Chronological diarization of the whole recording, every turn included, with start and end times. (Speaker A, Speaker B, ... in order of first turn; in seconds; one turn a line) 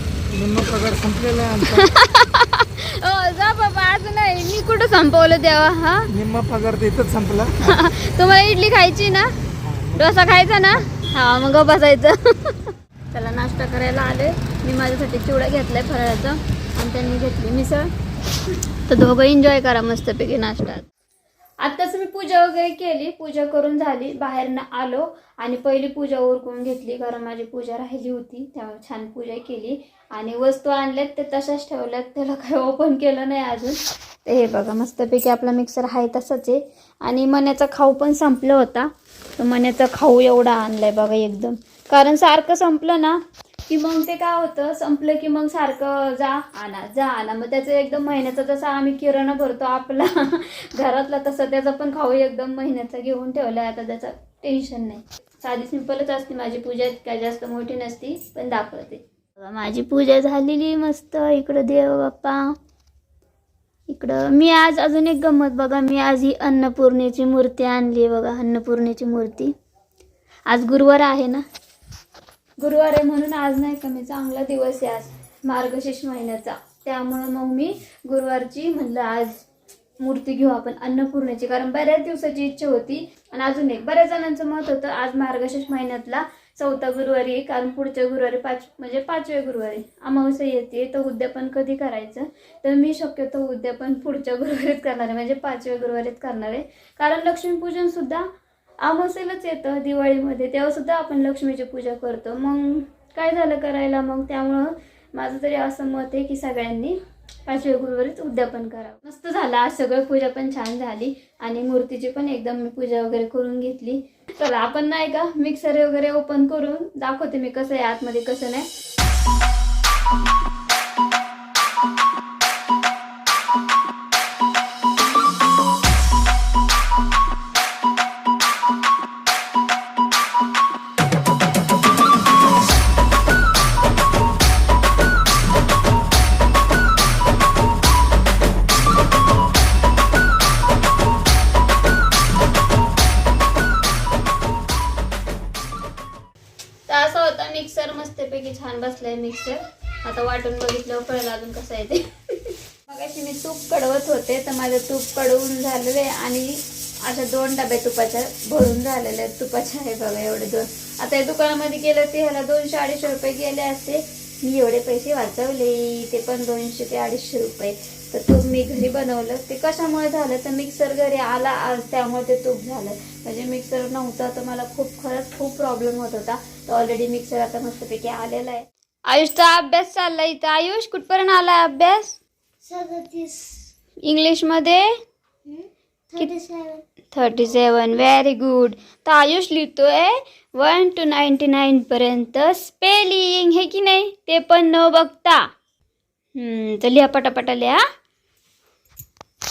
Speaker A: 0.3-1.9
Speaker B: 1.6-6.1
Speaker A: 6.1-7.6
Speaker B: 7.6-9.3
Speaker B: 9.9-17.9
Speaker B: 18.8-20.9
Speaker B: 21.6-62.6
Speaker B: 63.9-69.5
Speaker B: 70.5-71.4
Speaker B: 72.6-79.4
Speaker B: 80.0-98.3
Speaker B: 98.8-118.7
Speaker B: 146.9-182.2
Speaker C: 182.6-183.7
Speaker B: 184.0-184.9
Speaker C: 185.5-186.8
Speaker B: 187.1-195.5
Speaker B: 196.3-197.8